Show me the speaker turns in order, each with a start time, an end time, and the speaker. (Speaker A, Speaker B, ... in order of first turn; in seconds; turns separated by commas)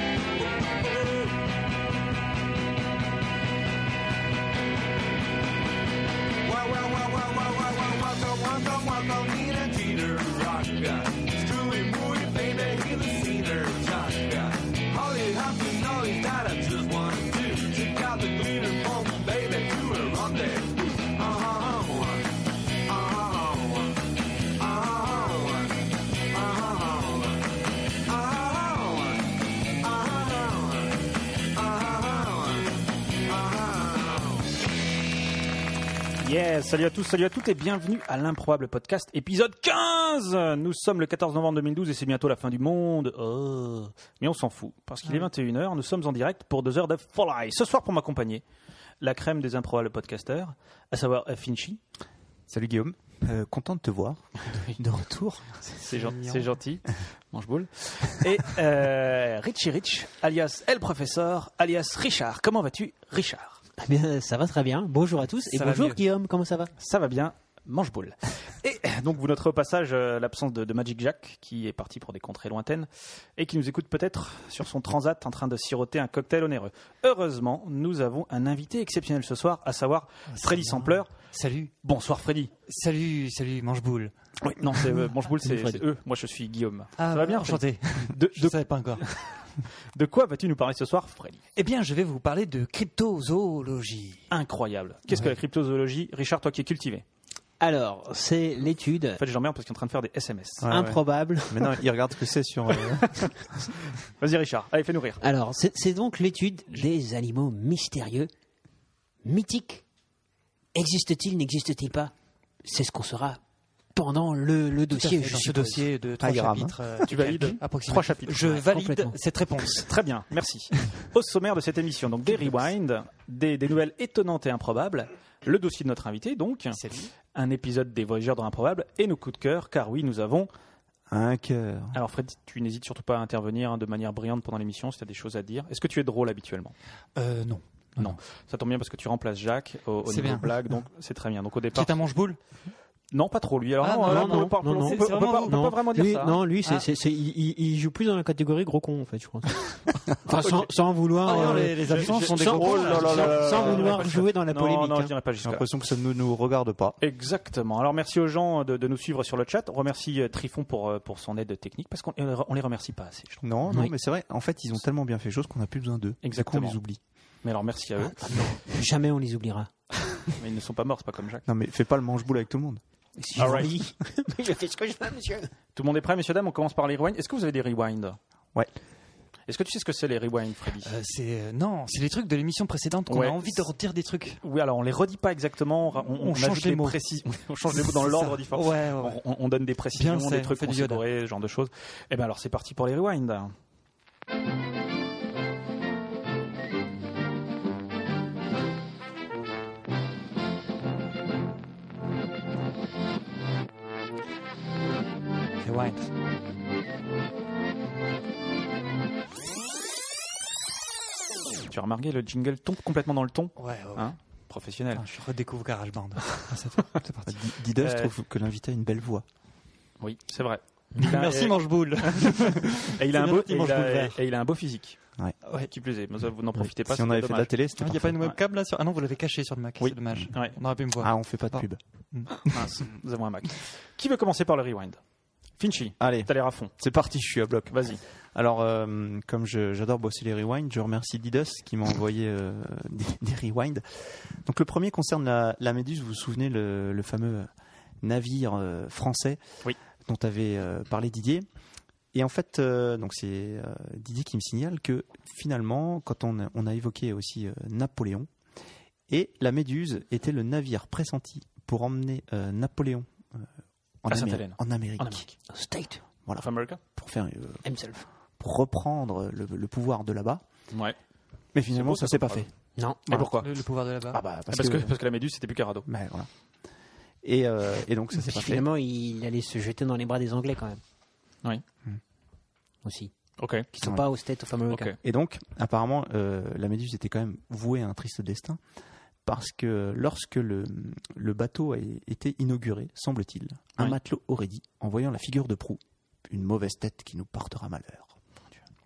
Speaker A: 6.4-24.0, Speaker A: 24.6-27.5, Speaker A: 28.1-31.0, Speaker A: 31.5-32.7, Speaker A: 33.2-34.4, Speaker B: 36.2-48.4, Speaker B: 49.0-51.8, Speaker C: 52.5-55.7, Speaker B: 54.4-54.8, Speaker B: 55.7-63.6, Speaker D: 55.9-56.5, Speaker E: 63.8-66.7, Speaker D: 65.5-66.0, Speaker B: 66.8-81.1, Speaker D: 80.3-81.7, Speaker B: 81.8-82.5, Speaker D: 82.7-84.1, Speaker B: 84.4-91.4, Speaker E: 85.5-85.8, Speaker D: 87.0-89.0, Speaker D: 91.5-94.2, Speaker B: 94.3-97.0, Speaker E: 97.6-99.2, Speaker B: 99.2-100.8, Speaker C: 100.6-103.3, Speaker E: 100.7-101.8, Speaker B: 104.0-105.2, Speaker E: 105.2-108.3, Speaker E: 109.2-109.8, Speaker E: 110.7-112.1, Speaker E: 112.6-113.4, Speaker E: 113.9-115.9, Speaker D: 114.9-119.9, Speaker C: 116.2-116.8, Speaker B: 117.0-118.6, Speaker E: 118.6-119.2, Speaker B: 119.7-130.5, Speaker D: 126.7-127.1, Speaker C: 131.1-132.0, Speaker B: 131.9-136.8, Speaker D: 137.1-138.2, Speaker B: 138.0-142.0, Speaker D: 140.1-140.5, Speaker D: 141.7-142.4, Speaker B: 143.1-146.4, Speaker D: 143.8-145.7, Speaker E: 144.1-155.1, Speaker D: 151.2-153.9, Speaker B: 151.3-155.7, Speaker C: 152.9-153.5, Speaker C: 155.4-157.0, Speaker B: 157.0-163.4, Speaker C: 163.4-167.0, Speaker B: 166.2-166.8, Speaker B: 167.4-168.5, Speaker E: 168.2-169.7, Speaker B: 170.3-171.5, Speaker C: 171.4-172.8, Speaker E: 173.2-175.5, Speaker B: 173.3-173.7, Speaker B: 175.7-178.2, Speaker B: 179.5-180.9, Speaker D: 180.8-184.4, Speaker B: 183.1-183.7, Speaker B: 184.4-193.5, Speaker D: 186.2-187.0, Speaker D: 187.7-189.2, Speaker D: 189.9-191.0, Speaker D: 205.6-206.1, Speaker B: 211.7-215.0, Speaker D: 213.6-214.1, Speaker D: 214.9-217.4, Speaker C: 217.3-219.2, Speaker B: 217.8-218.1, Speaker B: 220.0-225.0, Speaker D: 221.0-224.2, Speaker B: 225.5-227.5, Speaker C: 226.9-228.2, Speaker D: 227.8-232.6, Speaker B: 229.8-230.6, Speaker C: 231.0-231.8, Speaker B: 232.4-235.0, Speaker B: 235.6-236.7, Speaker C: 236.0-247.5, Speaker B: 237.7-238.0, Speaker C: 248.0-249.4, Speaker C: 250.0-251.4, Speaker C: 252.1-258.3, Speaker C: 259.1-263.5, Speaker C: 264.0-265.3, Speaker B: 264.1-265.3, Speaker E: 265.5-266.0, Speaker C: 266.2-267.6, Speaker B: 266.4-266.8, Speaker E: 267.6-268.1, Speaker C: 268.4-270.4, Speaker B: 270.7-270.9, Speaker C: 271.5-272.5, Speaker B: 271.7-272.5, Speaker E: 272.8-273.0, Speaker C: 273.1-273.3, Speaker B: 273.1-273.5, Speaker D: 273.2-274.2, Speaker B: 274.1-275.9, Speaker C: 274.1-274.9, Speaker C: 275.9-276.3, Speaker C: 277.2-278.6, Speaker E: 278.1-280.8, Speaker E: 282.8-283.1, Speaker B: 283.4-283.7, Speaker E: 283.7-284.9, Speaker B: 284.7-285.0, Speaker C: 285.0-288.6, Speaker C: 289.2-298.1